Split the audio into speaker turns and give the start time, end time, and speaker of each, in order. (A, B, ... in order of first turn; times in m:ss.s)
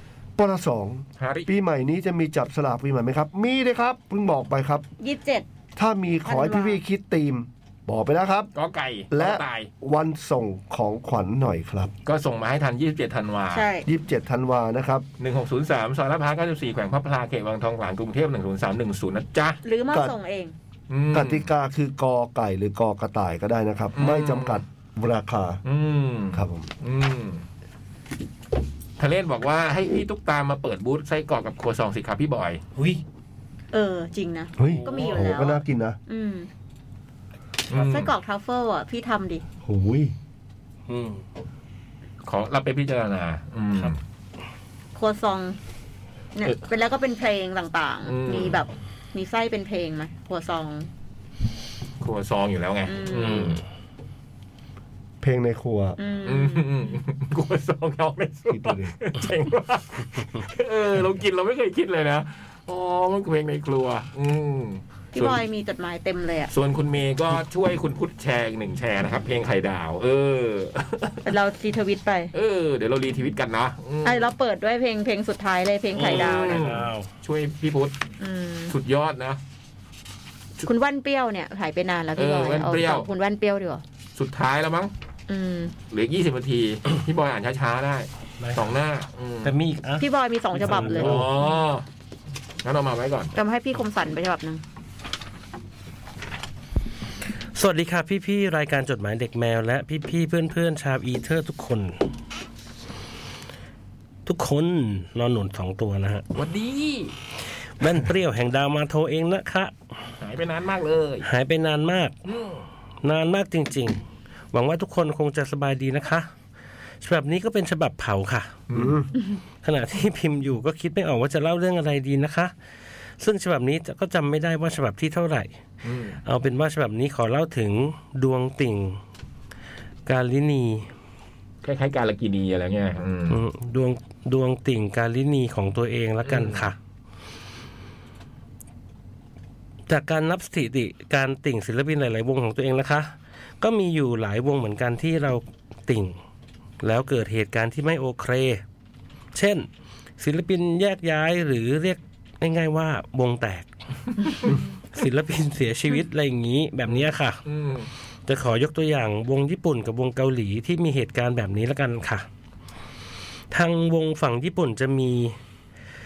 0:00.4-0:04.9 A
0:01.2-0:01.5 B
0:05.0-0:05.5 C
0:05.8-0:08.5 A
0:06.3-0:06.8 C
0:08.6-0:09.7 B
0:09.1-0:11.9 A
0:12.1-0:13.7 B
0:13.5-0:13.9 C
0:13.8-0:15.1 A
0:15.2-0:19.6 B
0:19.6-0:20.5 C
0:20.9-0:21.5 B
0:21.1-0:25.6 A
0:23.9-0:24.6 B
0:25.6-0:27.4 B
0:26.3-0:26.7 A
0:29.0-0:32.6 B
0:33.7-0:36.5 C
0:34.6-0:36.0 A
0:34.7-0:35.1 D
0:37.7-0:38.1 B
0:37.7-0:39.4 C
0:39.6-0:40.1 A
0:40.9-0:41.2 D
0:42.2-0:44.0 B
0:45.0-0:45.6 C
0:46.4-0:50.9 C
0:48.1-0:48.6 B
0:52.0-0:53.6 B
0:52.9-0:53.6 C
0:55.2-0:56.0 A
0:56.0-0:56.7 C
0:56.2-1:05.4 B
0:58.5-0:58.9 A
1:05.1-1:06.5 C
1:06.5-1:11.3 B
1:11.2-1:12.3 C
1:12.3-1:14.3 B
1:14.0-1:16.6 C
1:16.0-1:18.0 B
1:16.0-1:17.1 D
1:18.2-1:18.7 C
1:18.7-1:19.4 B
1:20.6-1:23.8 C
1:22.2-1:23.1 B
1:24.2-1:24.9 B
1:25.3-1:25.7 C
1:25.9-1:29.5 B
1:29.4-1:31.4 D
1:30.0-1:31.2 C
1:30.6-1:31.8 B
1:32.6-1:33.3 B
1:33.4-1:34.6 C
1:37.5-1:42.0 D
1:44.2-1:46.2 D
1:46.4-1:47.2 B
1:47.8-1:49.8 D
1:50.2-1:51.3 B
1:51.2-1:52.2 D
1:52.3-1:52.7 B
1:53.0-1:54.0 D
1:54.5-1:56.3 D
1:57.0-1:58.6 D
1:58.7-1:59.0 B
1:58.7-1:59.1 A
1:59.6-2:02.5 D
2:03.2-2:05.5 D
2:05.8-2:06.2 B
2:06.2-2:09.0 D
2:10.1-2:10.9 D
2:11.6-2:13.4 B
2:13.3-2:16.8 D
2:16.2-2:16.7 B
2:19.9-2:26.2 D
2:26.8-2:28.6 D
2:29.3-2:29.7 D
2:30.2-2:33.7 D
2:34.2-2:37.4 D
2:36.9-2:37.9 B
2:38.3-2:42.3 D
2:43.5-2:45.4 D